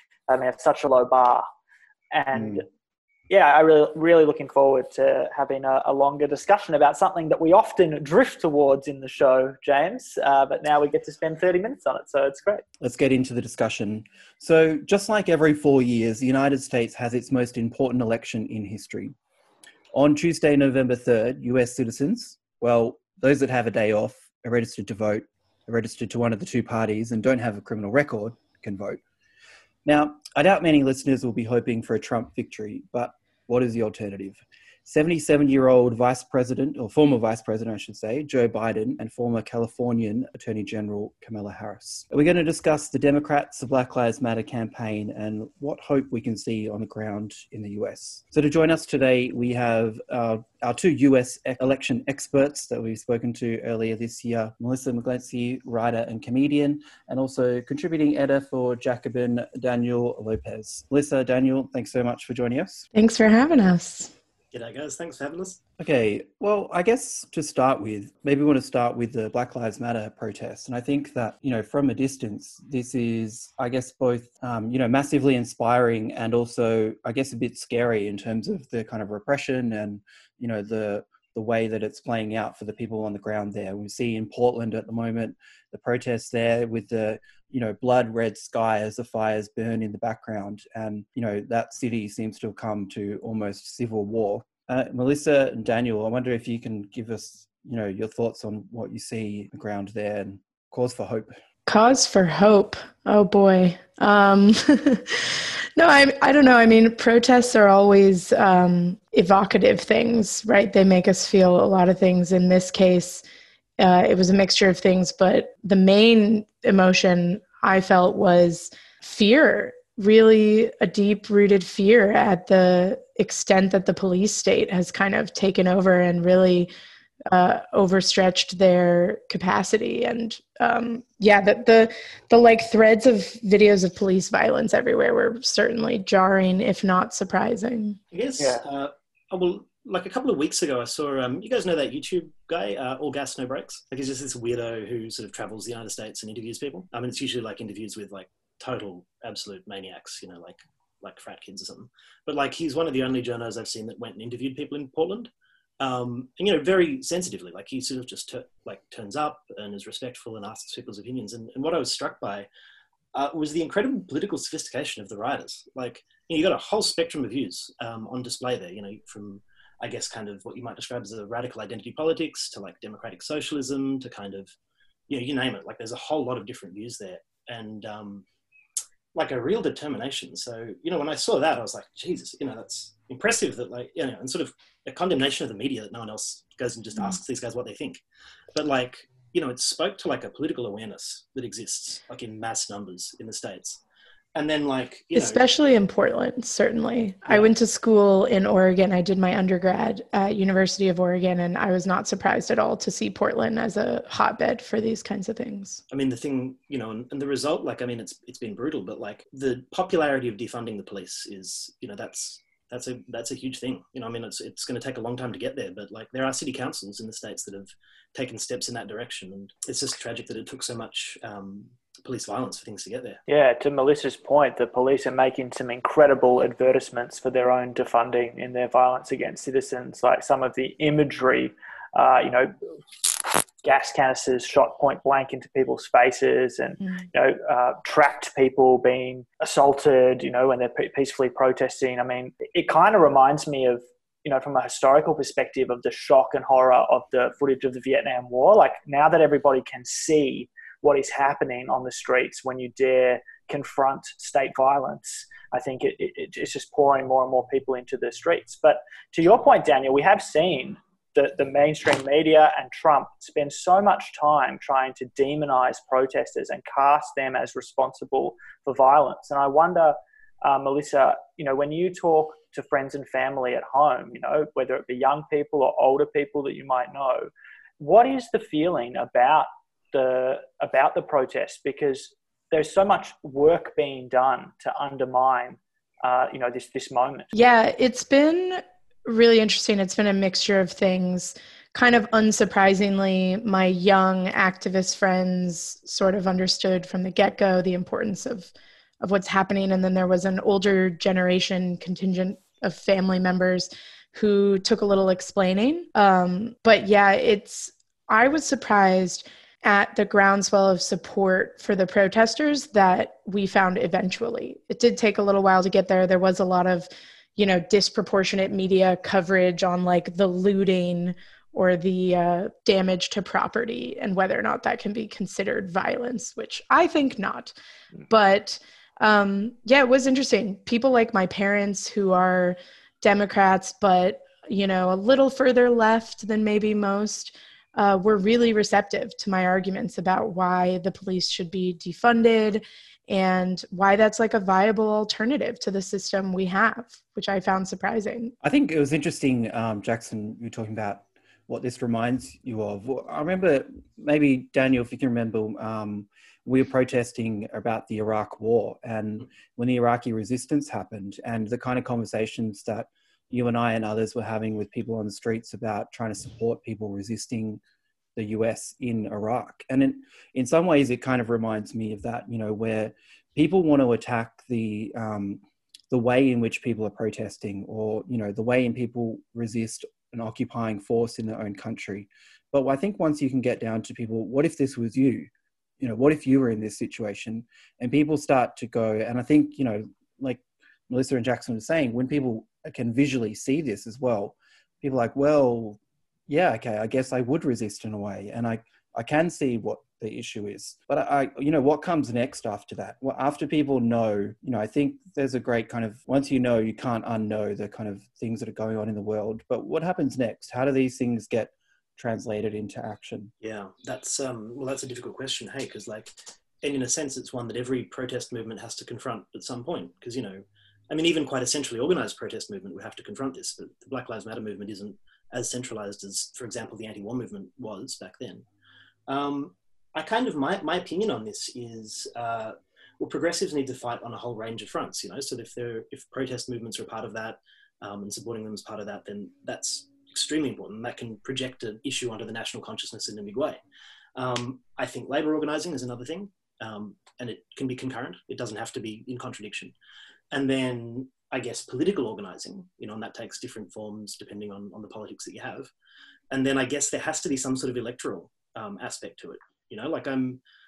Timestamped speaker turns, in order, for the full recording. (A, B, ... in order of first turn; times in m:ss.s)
0:00.3-0:01.4 A
0:02.1-0:02.7 A
0:02.3-0:02.6 B
0:03.3-0:12.6 A
0:12.8-0:19.2 B
0:19.9-0:29.0 B
0:29.9-1:02.9 B
1:02.9-1:04.1 C
1:04.5-1:05.6 D
1:05.8-1:41.4 B
1:41.7-1:53.2 C
1:53.8-2:06.7 C
2:07.3-2:18.0 C
2:18.1-2:42.5 D
2:18.4-2:18.7 A
2:43.1-2:54.5 D
2:55.1-2:58.2 D
2:59.1-3:08.0 D
3:08.5-3:13.8 D
3:14.4-3:15.4 D
3:15.1-3:25.8 C
3:25.9-3:43.2 D
3:43.3-3:53.0 A
3:53.6-4:47.3 A
4:47.3-5:27.6 C
5:28.1-5:48.3 C
5:48.4-6:07.6 B
6:08.2-6:25.3 B
6:25.8-6:53.3 B
6:53.4-7:08.4 D
7:09.1-7:23.6 D
7:24.2-7:29.8 D
7:30.3-7:35.7 D
7:36.3-7:40.4 D